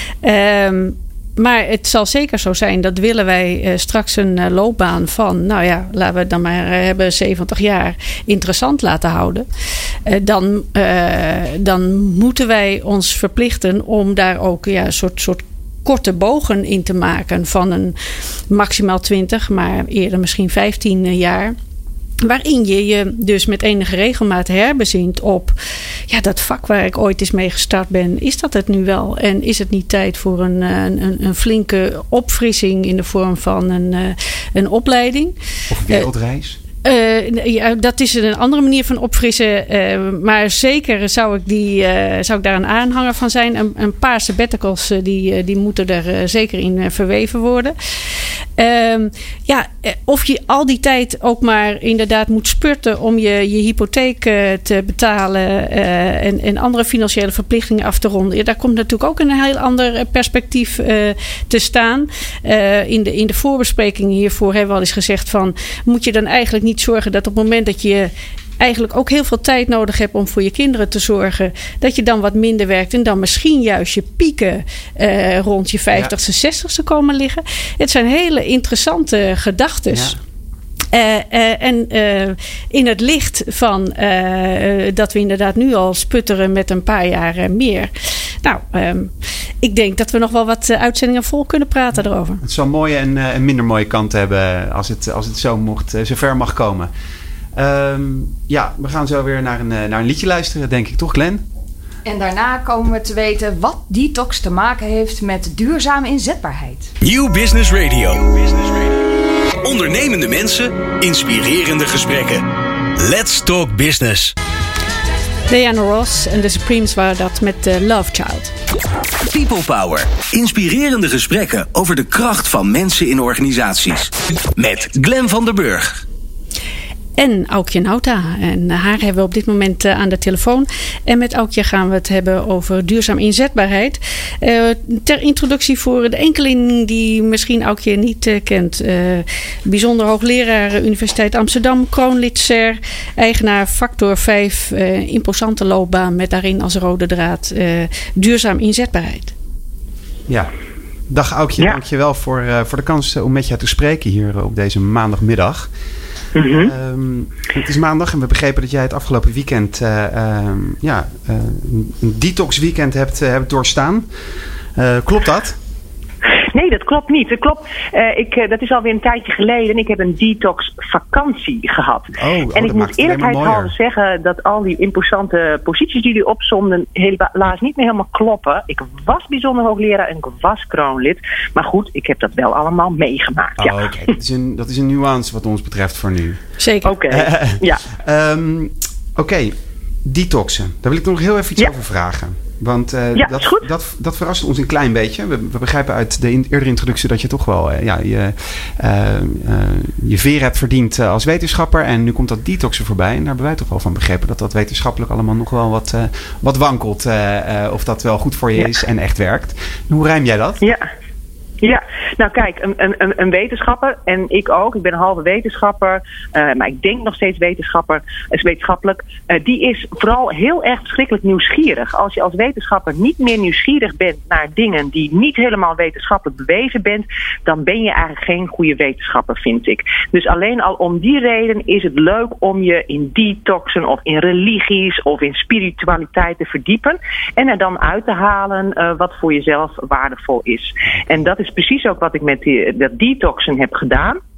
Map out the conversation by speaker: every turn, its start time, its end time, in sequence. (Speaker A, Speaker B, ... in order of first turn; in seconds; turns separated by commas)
Speaker A: 0.2-9.4, Speaker A: 10.1-17.9, Speaker A: 18.5-21.5, Speaker A: 22.2-25.5, Speaker A: 26.1-35.3, Speaker B: 35.7-36.6, Speaker A: 36.8-47.7, Speaker A: 48.6-80.2, Speaker B: 79.9-80.2, Speaker A: 80.9-87.9, Speaker A: 88.4-92.4, Speaker B: 92.4-96.9, Speaker B: 97.5-101.4, Speaker C: 102.0-106.9, Speaker D: 107.0-108.9, Speaker D: 109.6-112.4, Speaker D: 113.0-114.3, Speaker A: 115.5-118.5, Speaker D: 119.2-126.0, Speaker A: 127.2-149.3, Speaker B: 151.1-155.7, Speaker E: 156.3-156.7, Speaker B: 156.6-164.1, Speaker B: 164.8-165.6, Speaker E: 166.5-183.9, Speaker B: 172.2-173.7, Speaker B: 183.6-186.4, Speaker A: 186.6-187.0, Speaker E: 186.8-187.8, Speaker B: 187.1-210.6, Speaker E: 193.2-193.7, Speaker E: 210.6-210.9, Speaker E: 211.6-244.2